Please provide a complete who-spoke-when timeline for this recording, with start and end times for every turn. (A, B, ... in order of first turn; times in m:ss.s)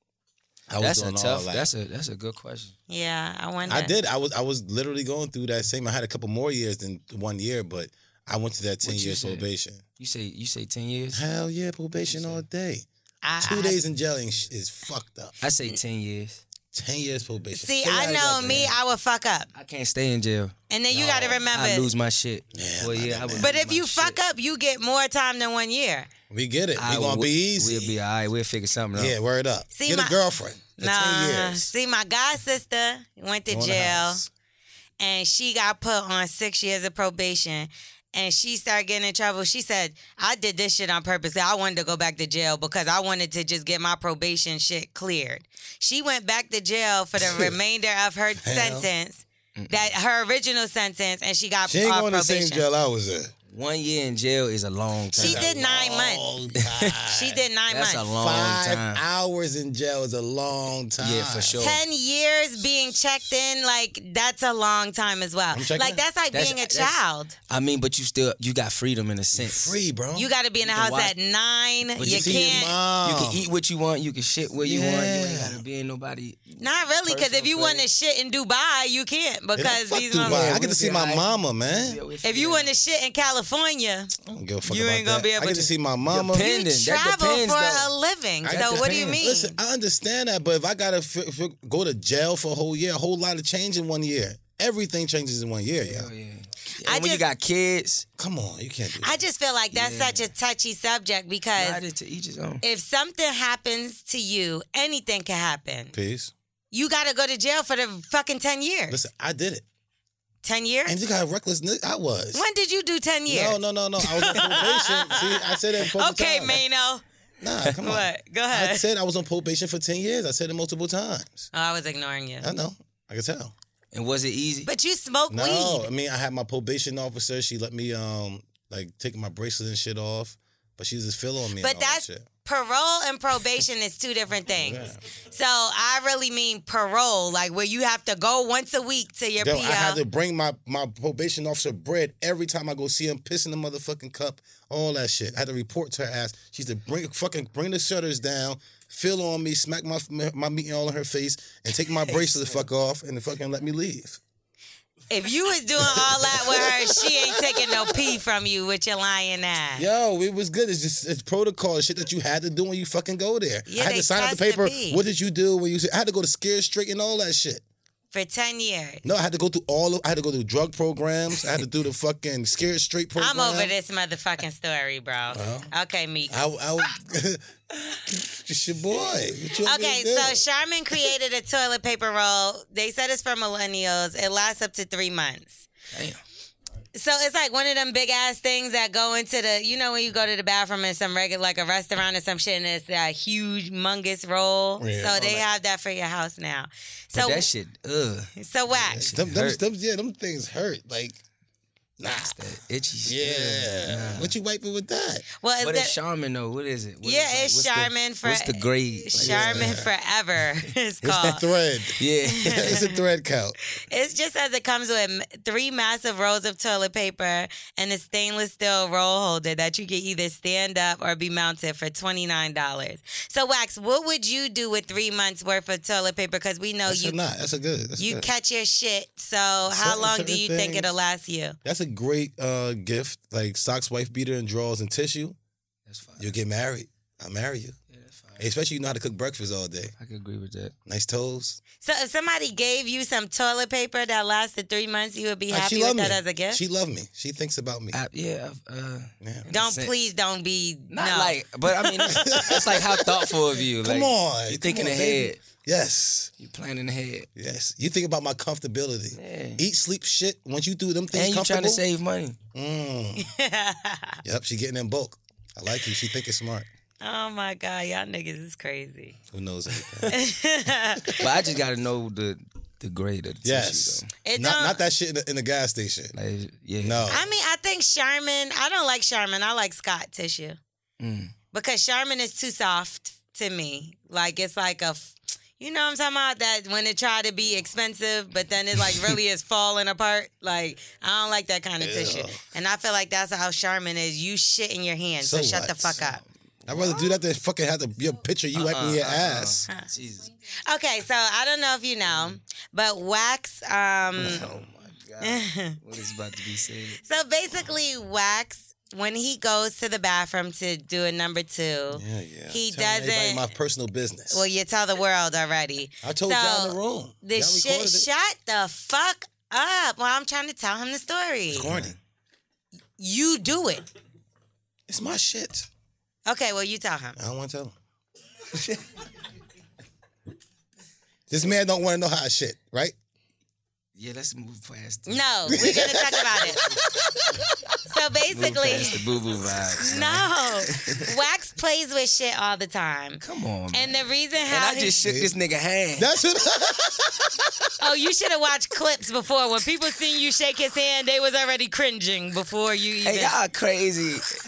0:00.7-0:01.7 A
0:00.8-0:02.8 B
0:02.9-0:03.9 C
0:03.7-0:09.8 A
0:08.8-0:09.5 B
0:10.0-0:11.3 B
0:11.1-0:12.9 A
0:12.0-0:12.4 B
0:13.2-0:13.8 C
0:13.4-0:15.4 A
0:15.4-0:16.4 B
0:16.7-0:18.8 A
0:17.6-0:19.5 C
0:18.3-0:18.8 B
0:19.5-0:24.2 B
0:20.7-0:21.9 C
0:20.9-0:21.4 A
0:22.5-0:23.5 A
0:23.4-0:26.1 C
0:26.3-0:28.0 A
0:26.8-0:29.2 B
0:29.0-0:31.7 A
0:29.7-0:30.2 C
0:30.8-0:34.2 C
0:33.5-0:34.3 A
0:35.0-0:52.6 C
0:47.2-0:47.6 A
0:48.4-0:48.9 A
0:49.6-0:49.9 B
0:51.7-0:53.3 A
0:53.5-0:55.6 B
0:55.1-0:57.4 A
0:55.2-0:56.2 C
0:56.6-0:57.0 B
0:57.1-0:58.1 C
0:57.7-0:59.0 B
0:58.1-1:01.6 A
1:01.0-1:01.8 B
1:01.6-1:07.4 C
1:05.5-1:06.0 A
1:06.3-1:09.8 B
1:09.3-1:10.3 A
1:10.2-1:12.8 C
1:10.6-1:11.1 B
1:12.0-1:17.9 B
1:12.0-1:13.5 A
1:14.6-1:15.6 A
1:16.6-1:20.6 C
1:19.6-1:22.0 A
1:20.2-1:22.7 B
1:22.2-1:24.1 C
1:24.2-1:26.4 A
1:24.6-1:25.7 C
1:26.1-1:27.9 B
1:26.3-1:29.6 C
1:28.4-1:36.1 A
1:28.5-1:29.2 B
1:35.8-1:38.1 B
1:36.8-1:37.2 C
1:38.2-1:39.2 A
1:39.0-1:41.8 C
1:39.7-1:40.3 B
1:41.6-1:42.6 B
1:42.6-1:45.9 C
1:45.9-1:46.3 A
1:46.7-1:49.0 C
1:48.9-1:49.6 A
1:50.4-1:51.0 C
1:50.9-1:52.4 A
1:52.3-1:57.0 C
1:53.3-1:56.6 A
1:54.3-1:54.6 B
1:57.4-2:01.5 A
1:57.8-1:58.8 C
2:01.5-2:02.5 C
2:02.4-2:03.5 A
2:03.9-2:04.7 B
2:04.6-2:05.9 C
2:05.3-2:12.3 A
2:11.6-2:20.0 C
2:14.5-2:15.0 A
2:19.4-2:34.2 A
2:35.1-2:39.9 C
2:35.8-2:38.0 A
2:39.8-2:47.6 A
2:43.7-2:45.0 C
2:48.1-2:49.0 C
2:49.0-2:53.7 A
2:53.2-2:56.4 C
2:55.3-2:55.7 A
2:56.3-2:57.4 A
2:58.0-3:00.4 A
2:59.6-3:05.7 C
3:05.9-3:06.2 B
3:07.0-3:17.5 C
3:14.8-3:15.4 A
3:17.1-3:18.3 B
3:18.4-3:19.1 C
3:18.7-3:21.2 A
3:18.9-3:19.6 B
3:22.0-3:22.4 A
3:22.0-3:24.3 B
3:23.1-3:25.2 A
3:25.4-3:26.0 C
3:25.6-3:29.8 B
3:27.0-3:31.4 C
3:29.2-3:29.9 A
3:31.0-3:33.6 A
3:32.0-3:32.8 B
3:32.2-3:33.0 C
3:33.9-3:47.2 C
3:46.9-3:48.3 A
3:48.0-3:51.6 C
3:49.7-3:51.0 A
3:51.6-3:55.4 A
3:55.9-3:56.4 B
3:56.2-3:57.8 A
3:57.9-3:58.5 B
3:58.4-3:59.9 A
4:00.0-4:00.7 B
4:00.9-4:01.6 A
4:01.8-4:06.6 C
4:05.5-4:08.0 A
4:07.9-4:09.9 B
4:09.2-4:09.5 A
4:09.5-4:12.7 C
4:10.9-4:15.4 B
4:12.0-4:13.2 A
4:13.8-4:16.3 A
4:16.4-4:17.3 B
4:17.4-4:21.8 A
4:19.2-4:19.6 B
4:21.1-4:22.4 B
4:22.5-4:23.3 A
4:23.2-4:24.2 C
4:24.2-4:26.7 A
4:27.0-4:29.2 C
4:29.3-4:30.2 A
4:30.1-4:31.2 C
4:31.2-4:34.1 B
4:33.4-4:36.2 A
4:34.2-4:34.8 C
4:36.1-4:37.2 B
4:36.8-4:37.3 A
4:37.1-4:40.6 C
4:41.0-4:41.3 B
4:41.5-4:56.2 C
4:51.8-4:52.4 A
4:55.2-4:56.0 A
4:55.9-4:57.2 B
4:56.7-4:59.6 A
4:58.5-5:00.3 B
5:00.7-5:04.5 C
5:04.2-5:04.7 A
5:04.2-5:07.0 B
5:05.2-5:05.8 C
5:07.0-5:13.5 C
5:11.9-5:14.4 A
5:14.3-5:21.8 C
5:16.0-5:18.1 A
5:21.5-5:22.0 A
5:23.0-5:23.8 C
5:24.9-5:25.7 A
5:26.3-5:27.2 C
5:27.2-5:27.8 A
5:31.3-5:33.0 A
5:34.0-5:35.7 B
5:35.1-5:36.6 C
5:35.5-5:37.4 A
5:37.9-5:39.0 C
5:38.3-5:41.0 B
5:39.8-5:45.0 C
5:43.2-5:46.1 B
5:45.0-5:45.4 A
5:46.0-5:47.7 A
5:47.8-5:53.4 C
5:53.0-5:54.3 B